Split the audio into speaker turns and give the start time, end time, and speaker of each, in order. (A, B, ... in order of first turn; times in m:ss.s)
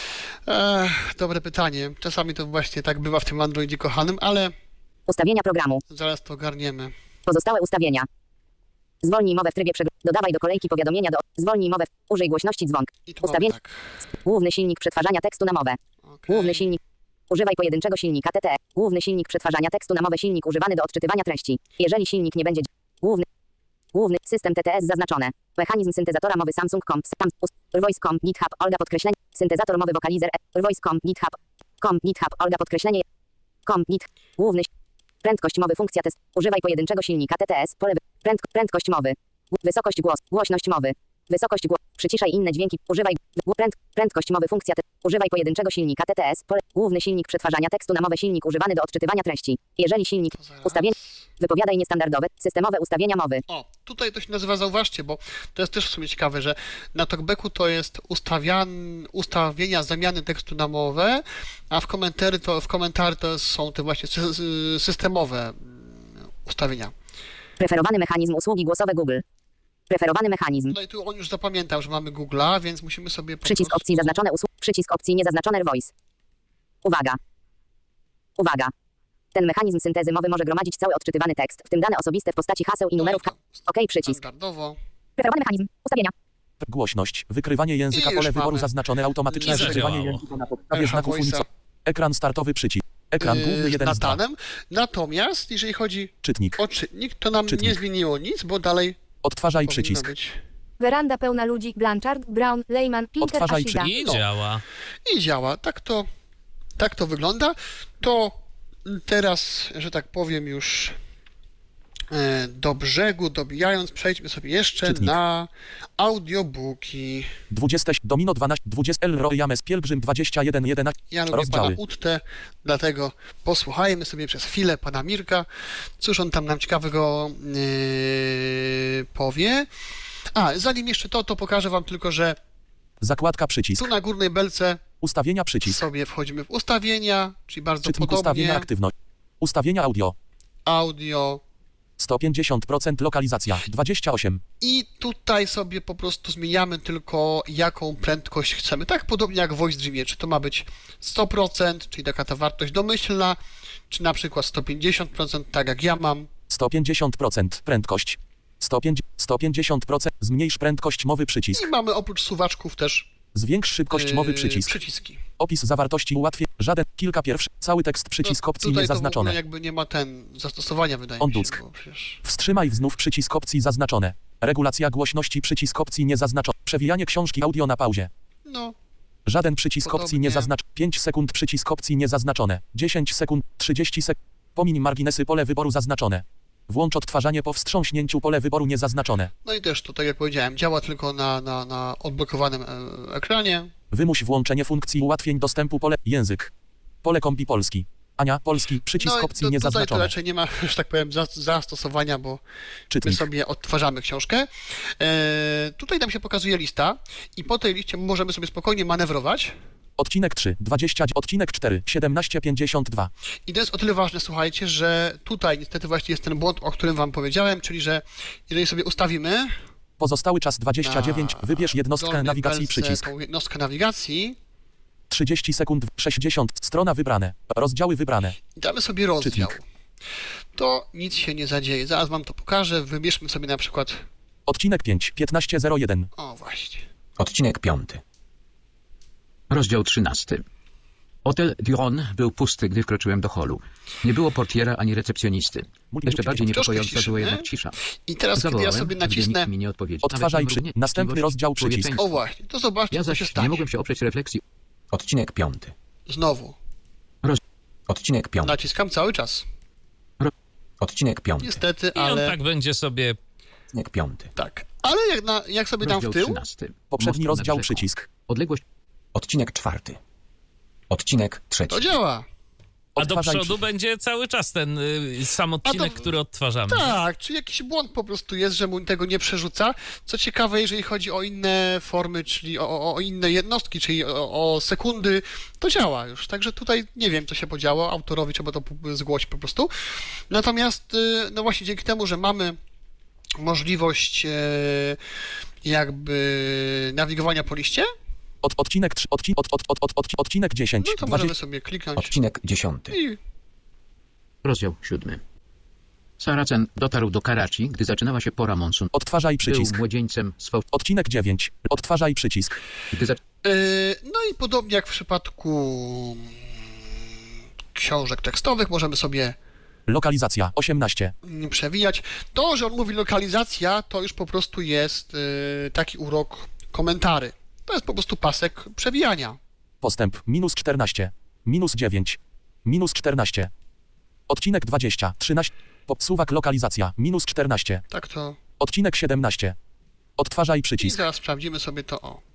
0:00.4-0:04.5 A
0:05.1-0:05.8 B
0:05.9-0:06.9 A
0:07.2-0:08.1 B
0:09.0-0:13.5 B
0:13.0-0:14.0 A
0:14.2-0:16.8 B
0:16.1-0:16.8 A
0:17.3-0:23.2 B
0:23.9-0:33.0 B
0:33.6-0:34.7 B
0:35.2-0:53.4 B
0:50.3-0:51.2 A
0:53.5-1:06.9 A
1:07.6-1:09.2 B
1:09.9-1:10.7 B
1:10.7-1:14.2 A
1:13.4-1:15.9 B
1:16.8-1:17.2 B
1:18.4-1:18.7 B
1:19.3-1:24.2 B
1:23.0-1:24.8 A
1:25.2-1:26.1 B
1:26.6-1:34.2 C
1:27.9-1:28.7 A
1:29.3-1:30.1 A
1:29.4-1:30.2 D
1:30.7-1:31.4 A
1:33.2-1:39.0 A
1:36.2-1:36.6 C
1:37.5-1:37.8 C
1:39.2-1:40.1 C
1:39.6-1:40.4 A
1:40.8-1:43.9 E
1:43.2-1:43.8 C
1:43.8-1:44.6 D
1:44.0-1:44.2 A
1:45.0-1:46.1 A
1:46.8-1:51.0 A
1:52.1-1:57.3 A
1:54.8-1:55.2 C
1:57.5-2:01.8 C
2:01.1-2:05.4 A
2:06.0-2:09.7 A
2:10.3-2:12.4 A
2:13.0-2:13.9 C
2:13.8-2:14.8 A
2:15.0-2:15.8 C
2:15.6-2:18.7 A
2:17.8-2:20.2 C
2:20.6-2:21.4 A
2:22.0-2:24.4 C
2:24.6-2:33.4 A
2:33.9-2:36.3 A
2:36.5-2:41.7 C
2:41.5-2:43.1 A
2:43.3-2:44.8 C
2:43.9-2:45.2 A
2:45.4-2:49.4 C
2:48.2-2:52.2 A
2:51.2-2:51.6 C
2:52.2-2:58.1 C
2:58.4-2:58.7 A
2:59.3-3:09.3 C
2:59.8-3:00.5 A
3:09.4-3:13.7 A
3:13.9-3:16.5 C
3:17.0-3:20.1 C
3:19.0-3:22.4 A
3:22.9-3:23.2 C
3:23.0-3:29.5 A
3:30.0-3:33.1 C
3:33.5-3:39.5 A
3:40.0-3:43.1 C
3:40.8-3:44.4 A
3:45.1-3:48.4 C
3:48.5-3:49.6 A
3:49.2-3:49.5 C
3:50.5-3:54.0 A
3:54.5-3:56.1 C
3:56.2-3:56.9 A
3:57.2-3:58.0 F
3:59.5-4:00.4 F
4:01.2-4:07.7 F
4:05.9-4:06.6 C
4:06.4-4:07.4 A
4:08.0-4:09.5 A
4:08.4-4:12.2 F
4:10.0-4:11.9 C
4:12.0-4:13.6 A
4:12.9-4:14.4 F
4:14.9-4:15.7 F
4:16.1-4:16.6 A
4:17.2-4:18.5 F
4:18.4-4:19.4 A
4:20.2-4:21.6 F
4:21.4-4:22.3 A
4:21.9-4:23.2 D
4:23.7-4:24.3 F
4:24.3-4:26.4 A
4:25.8-4:28.6 F
4:26.9-4:28.1 C
4:29.1-4:30.0 F
4:30.9-4:31.9 F
4:31.7-4:32.2 A
4:32.9-4:33.6 C
4:33.0-4:37.0 D
4:35.6-4:36.1 A
4:36.7-4:52.6 A
4:53.4-4:55.0 A
4:55.6-4:57.9 A
4:58.4-5:01.3 C
5:00.8-5:02.1 A
5:02.0-5:03.0 F
5:02.9-5:03.2 A
5:04.4-5:05.2 F
5:06.2-5:10.6 F
5:08.9-5:09.8 C
5:10.7-5:12.6 C
5:12.9-5:13.2 F
5:13.4-5:16.4 A
5:17.7-5:19.4 A
5:19.9-5:21.1 C
5:21.2-5:29.4 A
5:29.8-5:33.5 C
5:34.3-5:37.8 C
5:37.9-5:38.4 A
5:38.6-5:39.6 C
5:40.2-5:41.0 C
5:40.8-5:42.2 A